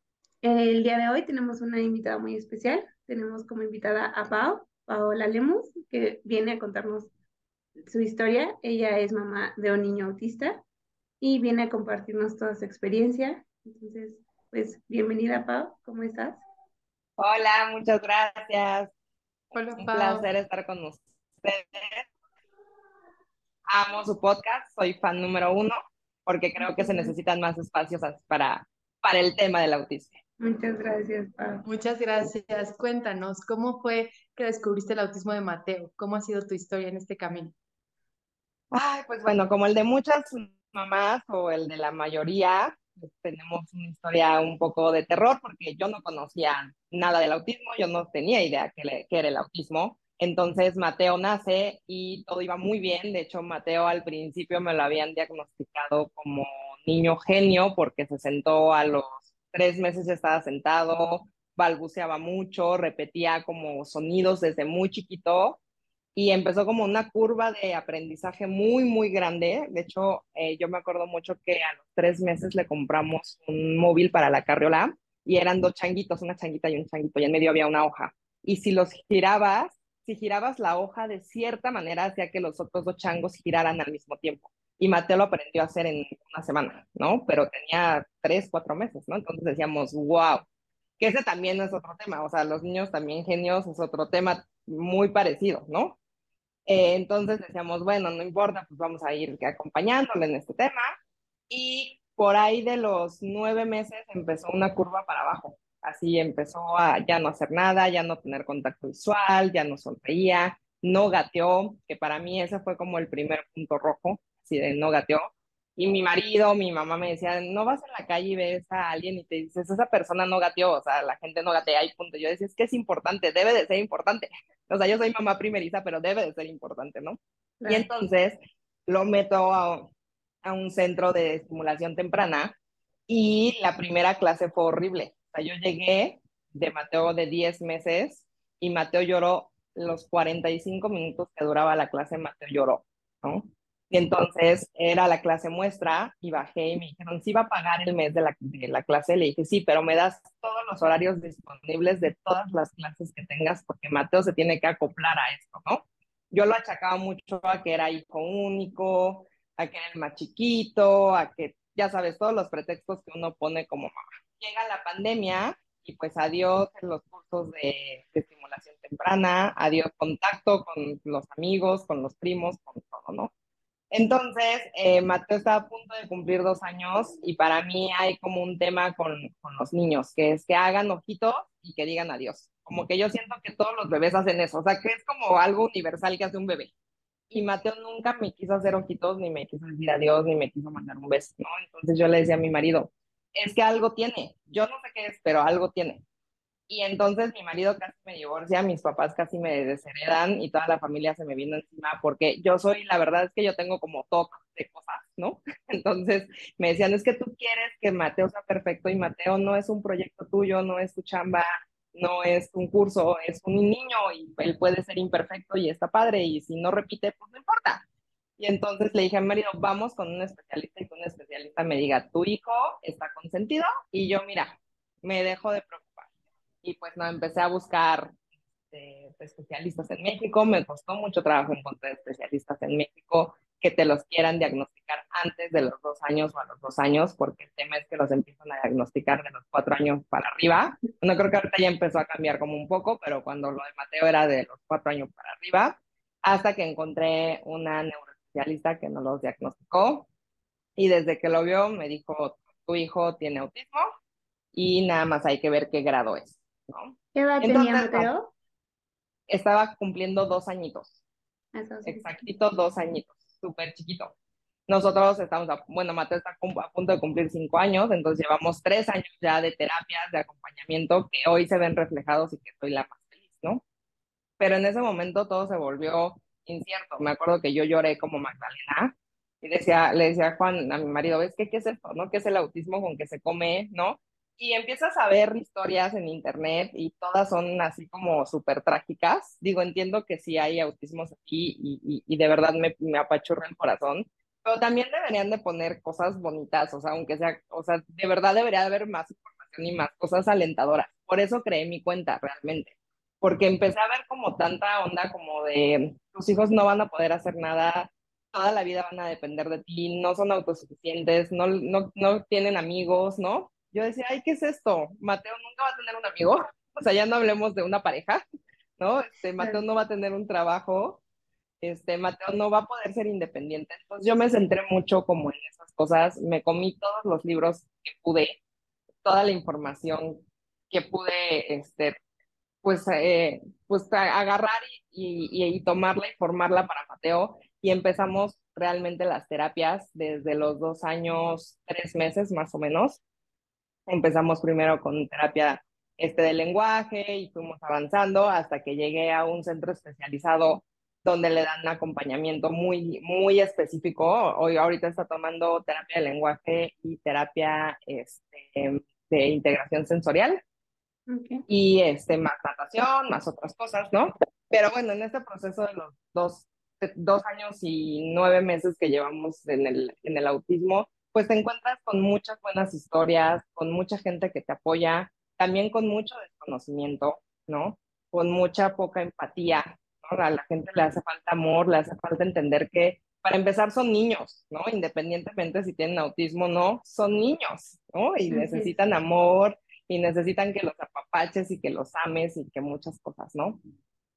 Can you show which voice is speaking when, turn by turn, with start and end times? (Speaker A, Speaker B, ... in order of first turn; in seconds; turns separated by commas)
Speaker A: 0.4-7.1, Speaker A: 7.9-10.6, Speaker A: 11.2-16.4, Speaker B: 17.2-18.9, Speaker C: 19.5-20.3, Speaker B: 19.8-22.1, Speaker B: 23.7-30.2, Speaker A: 26.6-27.1, Speaker A: 30.4-31.6, Speaker C: 31.6-37.5, Speaker B: 38.7-65.6, Speaker B: 66.1-90.5, Speaker B: 91.0-96.0, Speaker B: 96.7-100.9, Speaker B: 101.5-129.9, Speaker A: 127.6-127.9, Speaker B: 130.4-132.6, Speaker B: 133.1-173.3, Speaker B: 173.9-186.7, Speaker B: 187.3-196.0, Speaker B: 196.7-217.8, Speaker B: 218.4-226.1, Speaker B: 226.6-228.2, Speaker B: 228.7-250.1, Speaker B: 250.8-253.9, Speaker B: 254.5-258.1, Speaker A: 257.1-258.3, Speaker B: 259.3-261.0, Speaker A: 261.6-262.1, Speaker B: 261.8-264.1, Speaker B: 264.7-273.6, Speaker B: 274.4-318.2, Speaker B: 318.8-321.0, Speaker B: 321.6-328.4, Speaker B: 329.0-332.0, Speaker B: 332.6-343.0, Speaker B: 343.9-360.4, Speaker A: 361.1-361.4, Speaker B: 361.5-393.6, Speaker A: 388.3-388.7